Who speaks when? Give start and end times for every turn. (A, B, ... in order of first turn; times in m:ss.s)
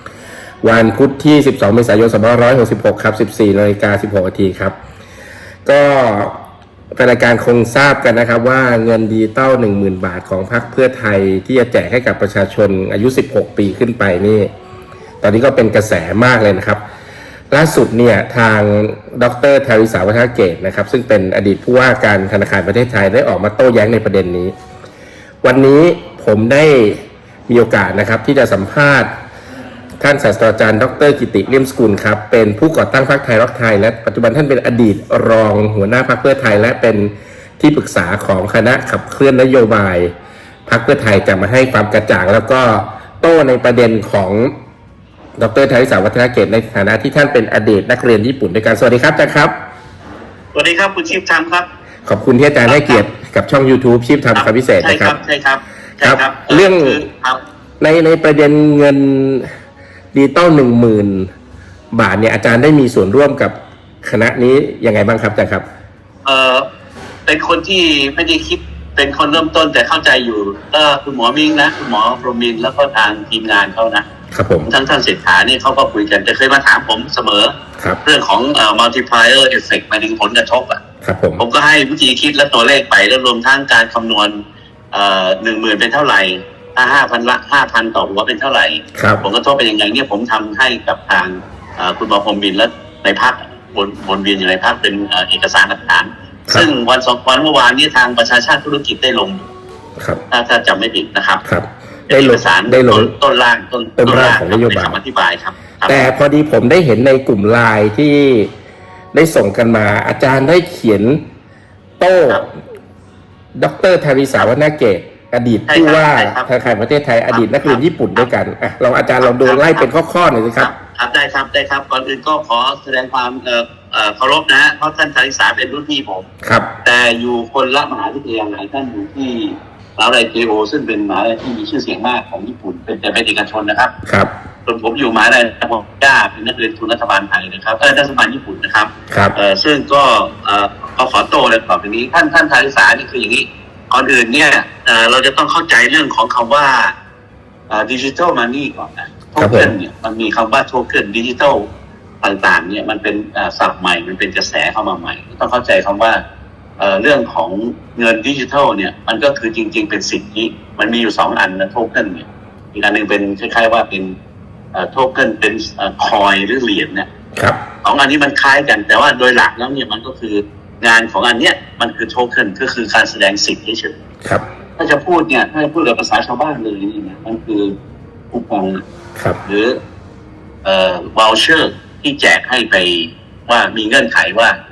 0:00.6-0:04.8 A
0:05.6-0:06.4 A
0:06.9-0:14.5 A
0:15.2-0:16.8 A
0:17.5-0:24.5 A
0:25.4-0:29.1 A
0:30.0-0:40.1 A
0:40.7-0:44.5 A
0:45.4-0:49.5 A
0:50.5-0:51.7 B
0:52.0-0:55.2 A
0:52.6-0:53.0 B
0:54.3-0:57.4 B
0:56.0-0:57.0 A
0:57.8-0:59.5 A
1:00.1-1:01.3 A
1:01.9-1:05.6 A
1:06.2-1:06.6 B
1:07.3-1:14.0 B
1:14.3-1:14.7 A
1:14.6-1:20.8 B
1:21.0-1:21.4 A
1:21.4-1:24.4 B
1:24.9-1:39.5 B
1:28.9-1:29.2 A
1:40.3-1:41.4 B
1:41.4-1:43.1 A
1:42.1-1:46.1 B
1:44.0-1:45.0 A
1:45.9-1:48.5 A
1:49.1-1:51.2 A
1:52.0-1:52.5 A
1:53.5-2:00.7 A
1:55.7-1:56.5 B
1:57.3-1:58.3 B
1:59.2-1:59.9 B
2:00.6-2:06.3 B
2:06.4-2:06.7 A
2:06.8-2:13.9 B
2:14.0-2:14.3 A
2:14.6-2:26.9 B
2:27.7-2:31.7 B
2:29.4-2:29.7 A
2:32.2-2:36.2 B
2:36.8-2:44.1 B
2:44.7-2:47.1 B
2:47.8-2:54.0 B
2:54.8-2:57.8 B
2:58.3-2:58.8 B
2:59.4-2:59.8 B
3:00.6-3:04.6 B